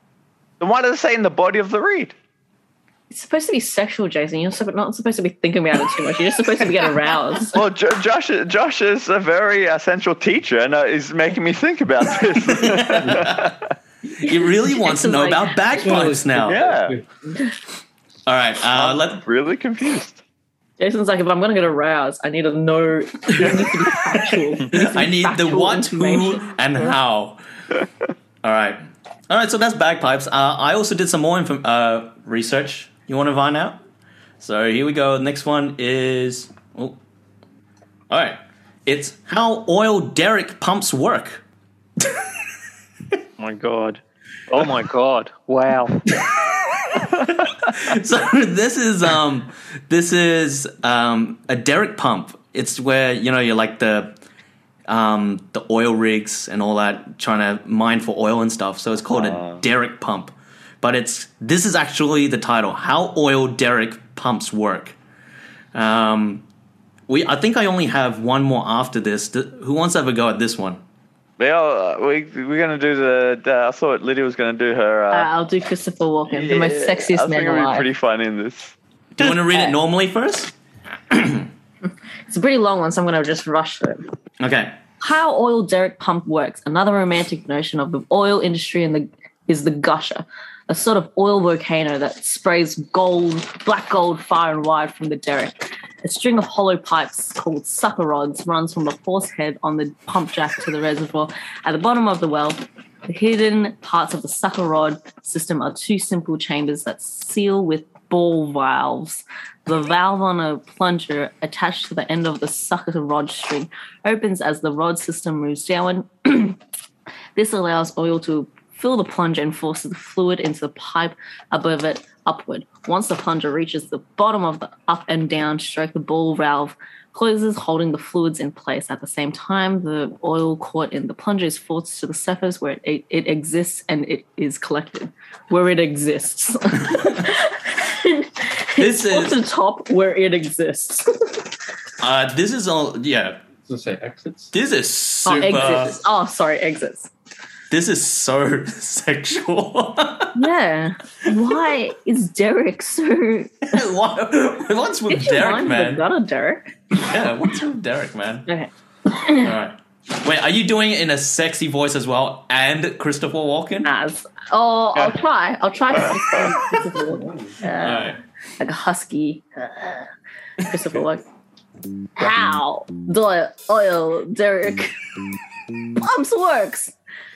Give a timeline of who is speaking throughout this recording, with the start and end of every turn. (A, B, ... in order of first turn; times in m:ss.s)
0:00.6-0:02.2 A
0:03.1-0:07.6 B
0:07.5-0:13.6 A
0:12.6-0:13.5 C
0:14.2-0:16.0 B
0:14.2-0:16.6 C
0:15.8-0:17.0 D
0:16.5-0:17.0 A
0:17.3-0:17.6 B
0:18.3-0:19.2 C
0:18.7-0:20.2 A
0:20.8-0:26.5 B
0:24.7-0:27.4 C
0:28.4-0:33.8 C
0:34.4-0:37.0 C
0:38.1-0:41.4 C
0:43.4-0:46.0 E
0:47.3-0:54.1 C
0:54.9-1:05.0 C
0:59.1-0:59.6 A
1:05.7-1:06.5 C
1:07.1-1:10.8 C
1:11.4-1:15.3 A
1:15.1-1:17.9 B
1:16.3-1:18.7 A
1:19.2-1:20.5 C
1:19.2-1:19.8 B
1:21.1-1:21.5 C
1:22.3-1:24.0 B
1:24.4-1:24.8 C
1:25.0-1:56.6 B
1:57.4-2:21.4 B
2:18.8-2:19.4 C
2:22.0-2:23.4 C
2:23.6-2:24.5 D
2:24.5-2:26.0 C
2:25.2-2:27.1 B
2:27.7-2:30.4 C
2:30.4-2:33.8 B
2:33.7-2:36.0 C
2:35.1-2:36.8 B
2:36.9-2:38.5 C
2:38.5-2:39.5 B
2:39.4-2:43.9 C
2:43.8-2:50.1 B
2:46.0-2:46.4 A
2:47.8-2:48.2 C
2:50.6-2:51.2 B
2:52.2-2:54.9 B
2:56.0-2:57.0 B